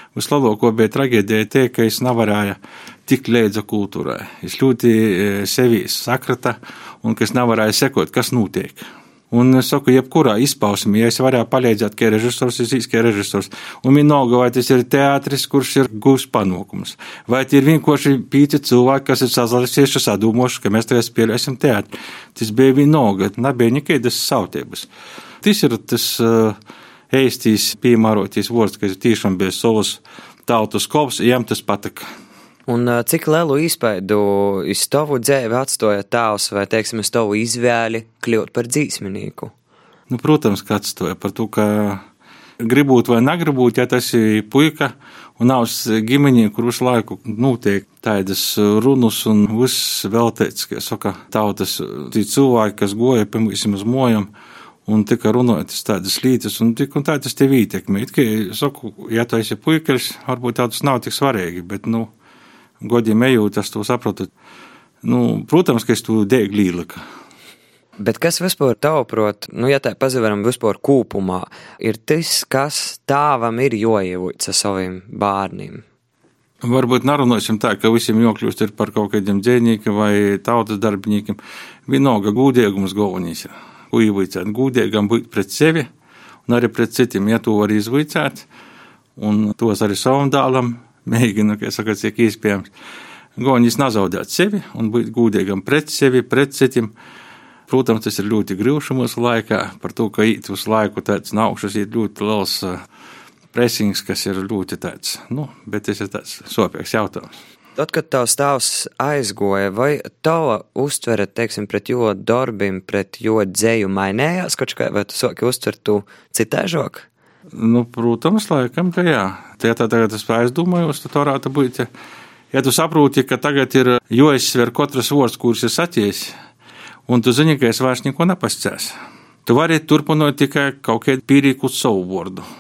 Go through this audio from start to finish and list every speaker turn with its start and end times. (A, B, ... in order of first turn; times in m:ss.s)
0:00.1-0:24.9 A
0:25.4-0:26.6 A
0:27.1-0:32.0 A
0:32.7-0:39.5 B
0:40.1-0:42.0 A
0:42.6-0:54.3 A
0:54.9-1:02.1 A
1:02.8-1:04.3 A
1:05.0-1:07.0 A
1:08.0-1:15.8 B
1:16.6-1:25.9 A
1:26.5-1:28.4 A
1:29.2-1:32.7 A
1:33.4-1:36.9 A
1:37.7-1:42.8 A
1:43.5-1:47.3 A
1:47.8-1:57.1 B
1:57.5-2:01.9 A
2:02.5-2:06.3 A
2:07.1-2:08.9 A
2:09.4-2:12.4 A